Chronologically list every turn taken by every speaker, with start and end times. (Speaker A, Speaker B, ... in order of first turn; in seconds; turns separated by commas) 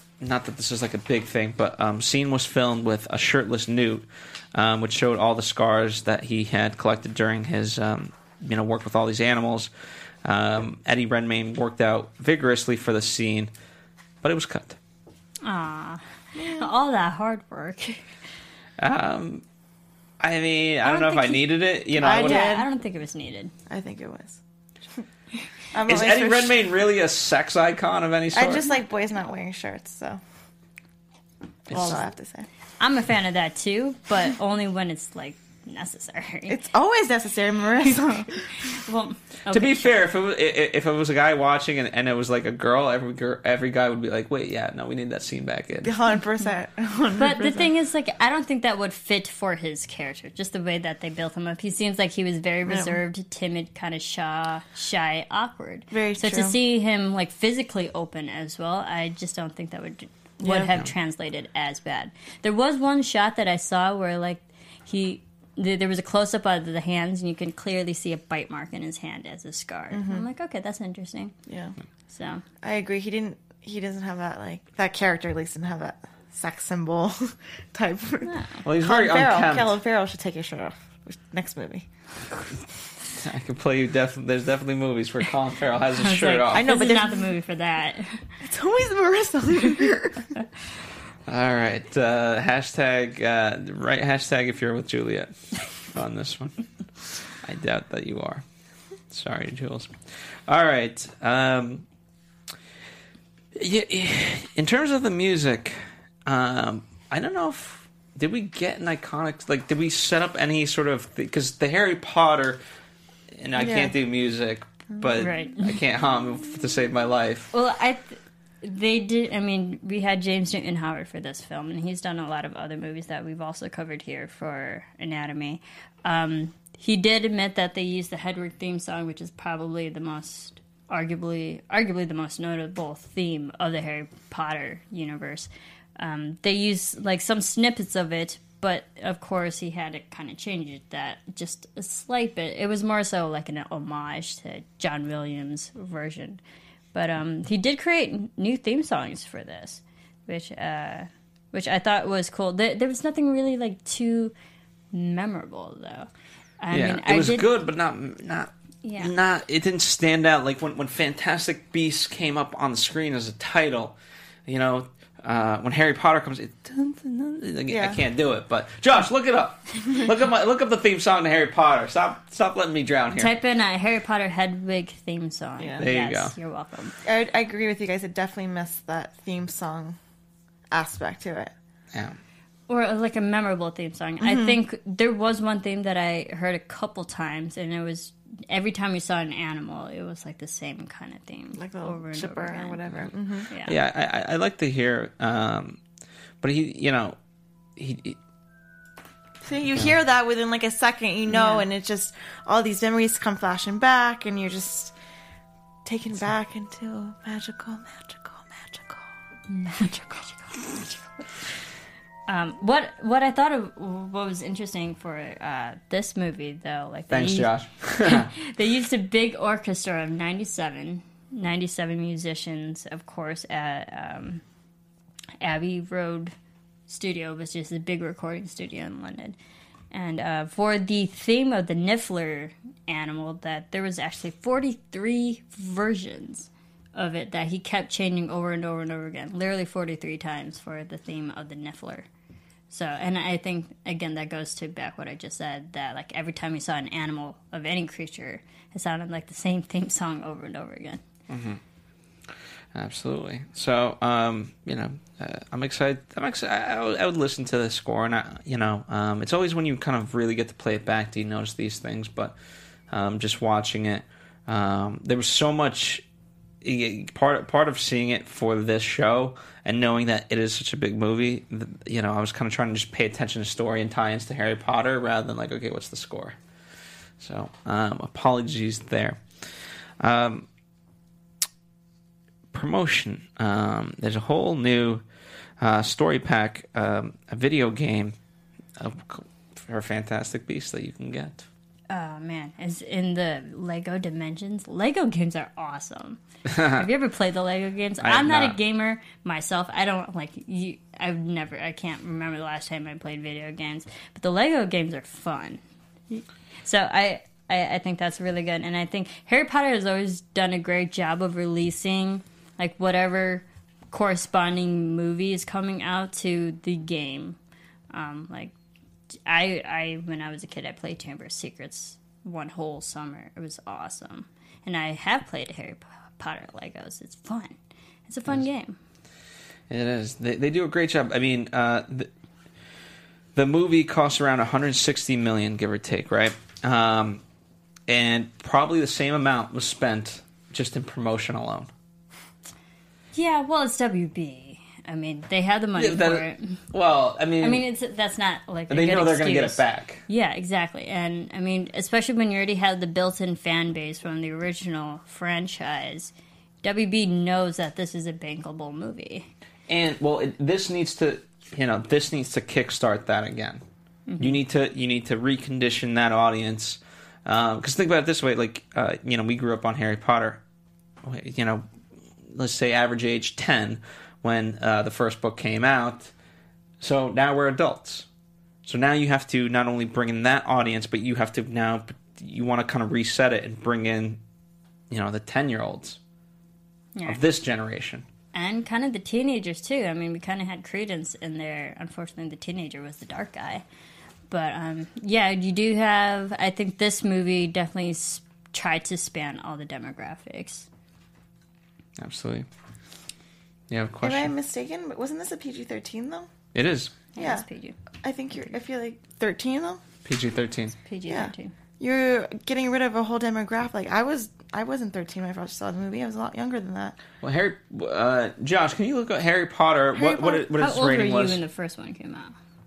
Speaker A: 0.2-9.7, Speaker A: 10.2-13.5, Speaker A: 14.2-14.8, Speaker B: 15.4-18.1, Speaker C: 16.4-16.7, Speaker A: 18.8-19.4, Speaker A: 20.2-22.4, Speaker B: 20.8-21.5, Speaker C: 21.9-22.7, Speaker B: 22.2-23.5, Speaker C: 23.7-24.4, Speaker C: 25.7-26.6, Speaker A: 25.8-28.6, Speaker C: 28.3-30.2, Speaker C: 31.7-32.5, Speaker A: 31.7-32.0, Speaker B: 31.7-32.0, Speaker B: 32.8-36.6, Speaker C: 36.5-38.7, Speaker B: 38.6-39.9, Speaker A: 39.5-46.0, Speaker C: 45.8-47.7, Speaker B: 47.1-71.3, Speaker C: 52.6-53.0, Speaker C: 55.9-56.5, Speaker C: 60.4-60.7, Speaker C: 69.9-70.2, Speaker C: 71.5-71.8, Speaker B: 72.1-72.4, Speaker C: 72.6-81.9, Speaker B: 78.2-78.7, Speaker A: 78.6-79.7, Speaker A: 83.2-86.7, Speaker B: 86.0-88.3, Speaker C: 86.5-87.3, Speaker C: 88.4-90.3, Speaker A: 91.3-96.7, Speaker A: 97.4-98.4, Speaker A: 99.1-101.8, Speaker A: 103.5-112.6, Speaker A: 113.3-117.5, Speaker C: 113.5-113.9, Speaker B: 115.2-115.8, Speaker B: 117.5-146.4, Speaker B: 146.9-154.3, Speaker B: 154.9-156.1, Speaker B: 156.6-157.4, Speaker A: 156.7-163.9, Speaker B: 158.8-159.1, Speaker A: 164.5-173.3, Speaker C: 167.7-168.0, Speaker B: 173.2-177.0, Speaker C: 175.6-175.8, Speaker A: 175.8-176.3, Speaker C: 177.0-180.0, Speaker C: 180.7-181.5, Speaker A: 181.9-182.2, Speaker B: 182.7-193.8, Speaker C: 184.2-184.6, Speaker C: 191.6-193.5, Speaker A: 193.6-195.8, Speaker A: 196.4-197.2, Speaker A: 197.8-198.2, Speaker C: 199.4-204.9, Speaker B: 201.3-201.6, Speaker C: 205.8-209.1, Speaker B: 209.5-209.9, Speaker C: 209.7-210.7, Speaker B: 212.3-224.4, Speaker A: 217.1-218.3, Speaker B: 225.4-226.3, Speaker B: 226.9-229.3, Speaker B: 229.9-242.1, Speaker B: 242.7-251.0, Speaker A: 251.3-251.6, Speaker A: 252.3-262.4, Speaker A: 262.9-266.0, Speaker A: 266.6-276.4, Speaker A: 277.2-280.5, Speaker A: 282.5-285.0, Speaker A: 285.6-288.1, Speaker A: 288.8-291.5, Speaker B: 291.9-317.4, Speaker A: 296.5-296.8, Speaker A: 298.0-298.6, Speaker B: 317.9-318.5, Speaker B: 319.2-327.6, Speaker B: 328.1-328.8, Speaker A: 329.7-332.1, Speaker A: 333.3-337.2, Speaker A: 337.9-341.7, Speaker B: 343.1-346.6, Speaker A: 345.8-347.6, Speaker B: 347.4-359.3, Speaker A: 348.7-350.0, Speaker A: 359.7-363.6, Speaker B: 364.1-364.4, Speaker A: 364.2-370.4, Speaker A: 371.0-371.6, Speaker A: 372.3-376.1, Speaker A: 376.8-378.1, Speaker A: 378.6-384.2, Speaker A: 384.9-386.0, Speaker A: 387.0-388.0, Speaker B: 388.3-393.6, Speaker B: 394.3-400.7, Speaker A: 402.0-402.5, Speaker A: 403.7-404.3, Speaker C: 404.0-406.3, Speaker A: 406.5-406.9, Speaker B: 407.1-407.8, Speaker C: 407.2-407.4, Speaker C: 408.0-409.8, Speaker A: 410.0-410.7, Speaker B: 410.8-411.5, Speaker C: 411.1-417.0, Speaker A: 417.2-421.4, Speaker B: 419.9-422.3